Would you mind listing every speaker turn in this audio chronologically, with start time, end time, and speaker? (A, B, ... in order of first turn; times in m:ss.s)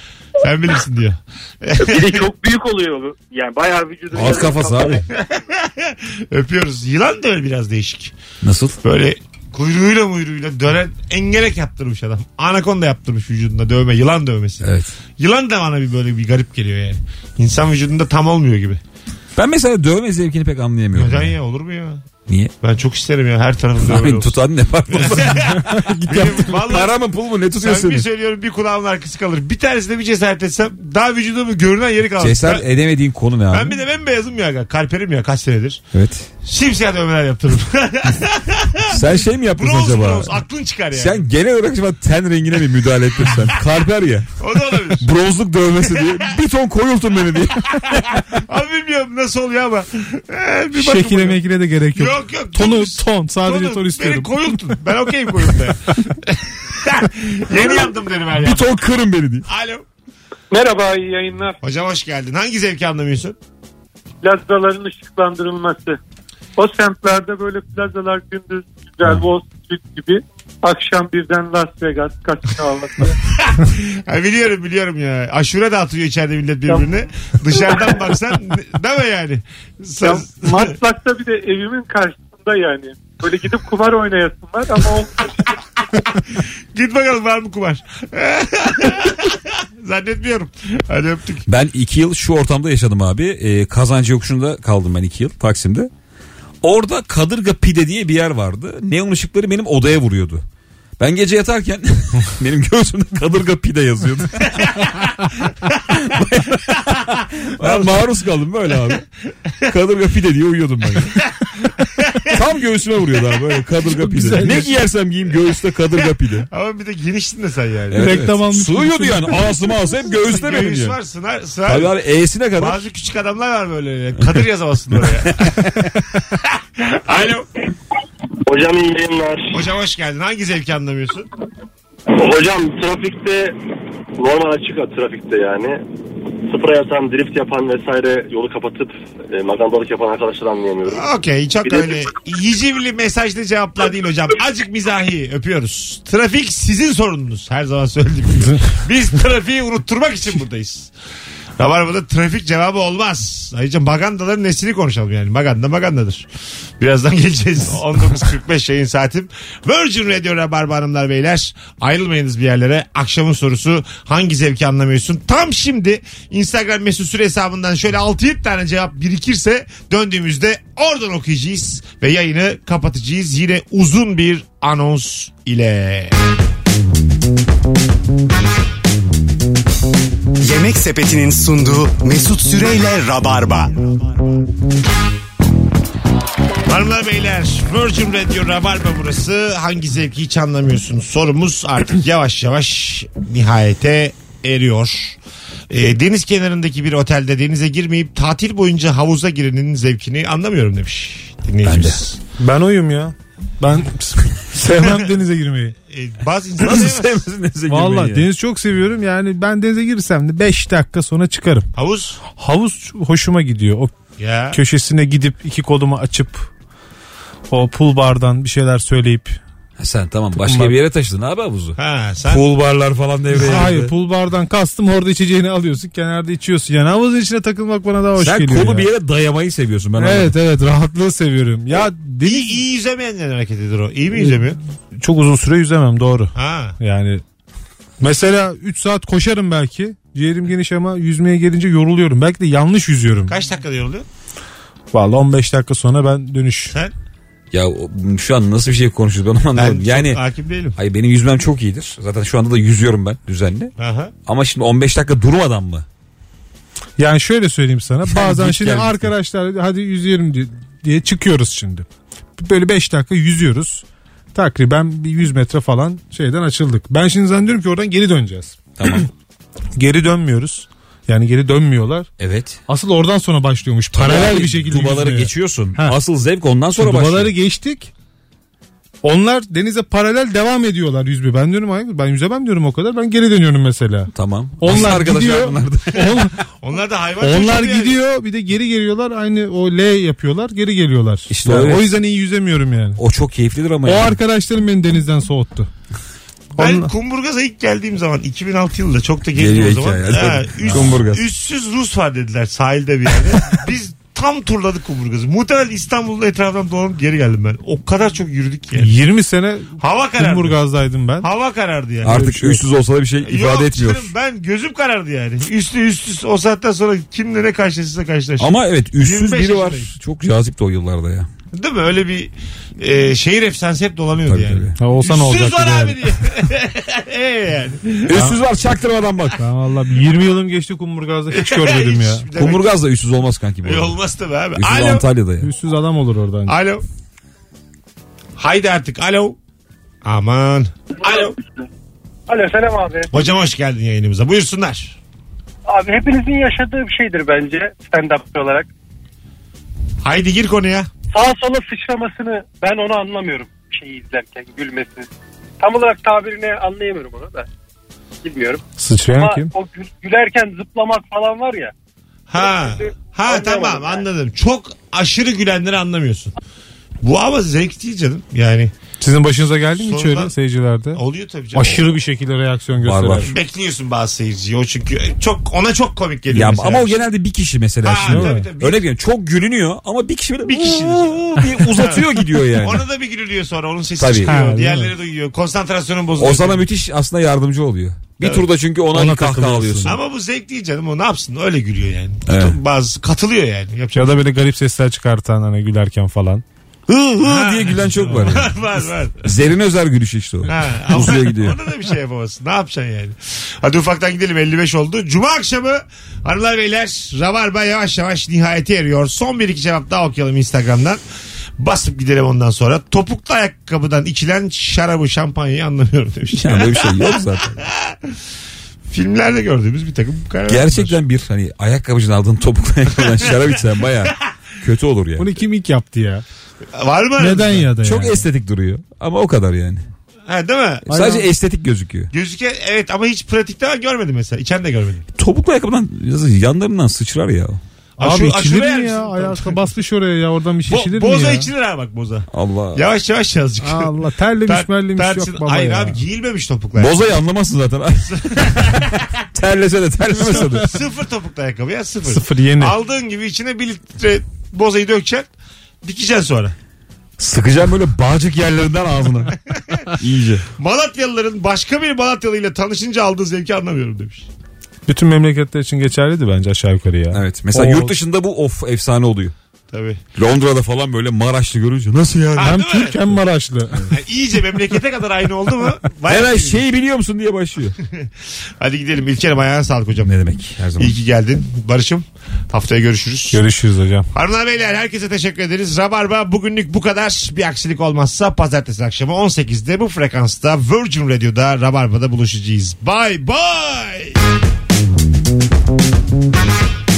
0:00.4-0:02.3 A
0:04.1-0:05.0 B
0:05.1-0:08.1 A
0:08.4-0:08.8 B
0:08.8-0:18.8 A
0:14.6-0:14.9 B
0:19.4-0:21.4 B
0:21.0-0:22.0 A
0:22.3-0:22.5 B
0:22.6-0:24.3 A
0:23.8-0:28.1 B
0:24.9-0:27.0 A
0:27.6-0:32.6 A
0:32.2-0:33.8 B
0:33.5-0:35.8 A
0:35.9-0:36.3 B
0:36.4-0:39.0 A
0:38.9-0:44.3 B
0:39.6-0:41.2 A
0:44.4-0:45.1 A
0:45.0-0:48.3 B
0:48.2-0:51.4 A
0:50.8-0:54.6 C
0:51.9-0:58.7 A
0:58.4-0:59.5 B
0:59.5-0:59.8 A
1:00.5-1:01.6 D
1:01.6-1:03.4 A
1:04.2-1:06.0 D
1:06.6-1:13.2 D
1:13.3-1:20.8 A
1:16.7-1:16.9 D
1:17.6-1:18.0 D
1:20.0-1:25.5 D
1:26.7-1:31.4 A
1:31.5-1:35.9 B
1:36.6-1:40.4 B
1:41.0-1:44.9 B
1:45.7-1:49.1 B
1:47.6-1:48.0 A
1:49.7-1:51.2 B
1:51.8-1:52.4 A
1:52.3-1:56.5 B
1:53.8-1:54.8 C
1:56.5-1:58.2 A
1:57.9-2:01.0 B
1:58.0-1:59.5 C
2:00.2-2:01.9 A
2:01.7-2:02.8 B
2:02.6-2:07.5 A
2:05.1-2:05.6 B
2:08.5-2:09.6 E
2:09.5-2:11.3 A
2:12.2-2:13.6 E
2:14.2-2:15.8 E
2:16.5-2:21.1 E
2:20.9-2:30.9 A
2:21.6-2:21.9 E
2:31.6-2:36.3 A
2:36.8-2:56.1 A
3:00.4-3:03.8 F
3:06.7-3:15.2 A
3:15.7-3:22.2 A
3:21.6-3:22.0 B
3:22.4-3:25.8 C
3:25.9-3:27.2 A
3:26.6-3:28.3 B
3:27.7-3:31.7 C
3:31.8-3:32.2 A
3:32.2-3:33.9 C
3:34.2-3:34.6 A
3:34.5-3:36.5 C
3:37.5-3:39.4 C
3:39.8-3:43.9 B
3:40.4-3:40.8 C
3:41.8-3:42.5 A
3:43.4-3:48.9 C
3:48.2-3:50.4 B
3:50.0-3:52.6 C
3:52.2-3:54.6 A
3:54.2-3:54.4 C
3:54.9-3:57.2 C
3:56.4-3:56.8 A
3:58.0-4:03.3 C
4:03.3-4:04.1 A
4:04.9-4:06.8 C
4:07.5-4:10.2 B
4:09.6-4:10.8 A
4:10.8-4:13.7 B
4:13.8-4:14.1 A
4:14.3-4:15.9 B
4:17.0-4:21.9 C
4:18.1-4:19.1 B
4:22.4-4:28.6 C
4:28.8-4:29.1 B
4:29.8-4:32.1 C
4:32.2-4:32.6 B
4:32.7-4:36.0 C
4:33.9-4:37.3 B
4:36.8-4:37.9 C
4:39.0-4:46.4 C
4:44.1-4:46.3 B
4:46.5-4:48.0 A
4:47.2-4:53.0 C
4:51.3-4:52.0 B
4:53.0-4:54.2 B
4:53.8-4:55.7 C
4:56.6-4:56.9 C
4:56.6-5:09.0 A
4:59.4-5:01.3 B
5:08.8-5:11.3 C
5:09.8-5:10.6 A
5:11.2-5:12.2 A
5:12.0-5:14.1 B
5:12.0-5:12.6 C
5:13.2-5:19.9 A
5:18.4-5:21.3 B
5:21.5-5:28.3 A
5:24.2-5:24.8 B
5:24.8-5:26.0 C
5:28.1-5:29.4 B
5:28.1-5:28.4 C
5:29.4-5:32.3 C
5:31.3-5:32.7 A
5:32.4-5:34.0 B
5:33.6-5:35.1 A
5:34.5-5:35.5 B
5:35.4-5:36.6 C
5:36.5-5:36.8 A
5:38.4-5:39.4 A
5:40.0-5:41.4 A
5:42.3-5:43.0 D
5:43.1-5:45.0 A
5:45.7-5:48.6 D
5:50.0-5:50.9 A
5:51.2-5:51.6 E
5:51.6-5:55.1 D
5:55.6-5:57.4 D
5:58.2-5:58.6 D
5:58.8-5:59.5 C
5:59.2-6:01.7 D
6:02.3-6:06.4 A
6:07.0-6:08.7 A
6:09.0-6:11.0 C
6:09.8-6:10.3 A
6:11.0-6:11.8 A
6:11.5-6:13.3 C
6:12.8-6:13.3 B
6:13.2-6:17.0 A
6:16.3-6:22.9 B
6:17.8-6:18.9 A
6:18.0-6:18.5 C
6:20.5-6:22.0 A
6:22.6-6:26.6 A
6:24.0-6:24.5 B
6:24.3-6:24.9 C
6:26.2-6:30.0 B
6:28.2-6:28.5 A
6:28.9-6:30.0 C
6:29.8-6:34.2 A
6:32.3-6:32.6 B
6:34.0-6:36.4 C
6:36.9-6:41.6 B
6:37.2-6:39.2 A
6:40.5-6:51.0 A
6:51.6-6:58.0 A
6:56.3-6:57.6 B
6:58.9-7:01.0 A
7:00.5-7:05.3 B
7:03.1-7:03.6 A
7:05.2-7:06.2 C
7:06.7-7:07.7 A
7:07.2-7:08.2 C
7:07.8-7:09.8 B
7:10.3-7:10.9 A
7:10.9-7:11.3 C
7:10.9-7:12.1 B
7:12.1-7:15.1 A
7:15.2-7:17.6 B
7:18.0-7:19.7 A
7:18.0-7:21.5 C
7:20.7-7:27.0 A
7:22.3-7:22.8 B
7:23.6-7:26.0 C
7:26.8-7:30.7 B
7:28.1-7:29.1 A
7:30.2-7:30.7 C
7:30.5-7:35.3 A
7:32.1-7:32.8 C
7:35.8-7:36.6 A
7:37.2-7:39.4 B
7:39.5-7:39.8 A
7:39.9-7:40.4 B
7:40.6-7:44.3 A
7:44.9-7:48.0 C
7:47.1-7:49.4 B
7:49.7-7:50.0 A
7:50.2-7:52.6 B
7:52.4-7:53.2 A
7:52.4-7:53.9 C
7:53.9-7:56.6 A
7:56.0-7:57.8 B
7:58.6-8:00.1 A
8:00.0-8:00.9 B
8:00.8-8:03.4 A
8:03.3-8:04.1 C
8:04.1-8:14.2 A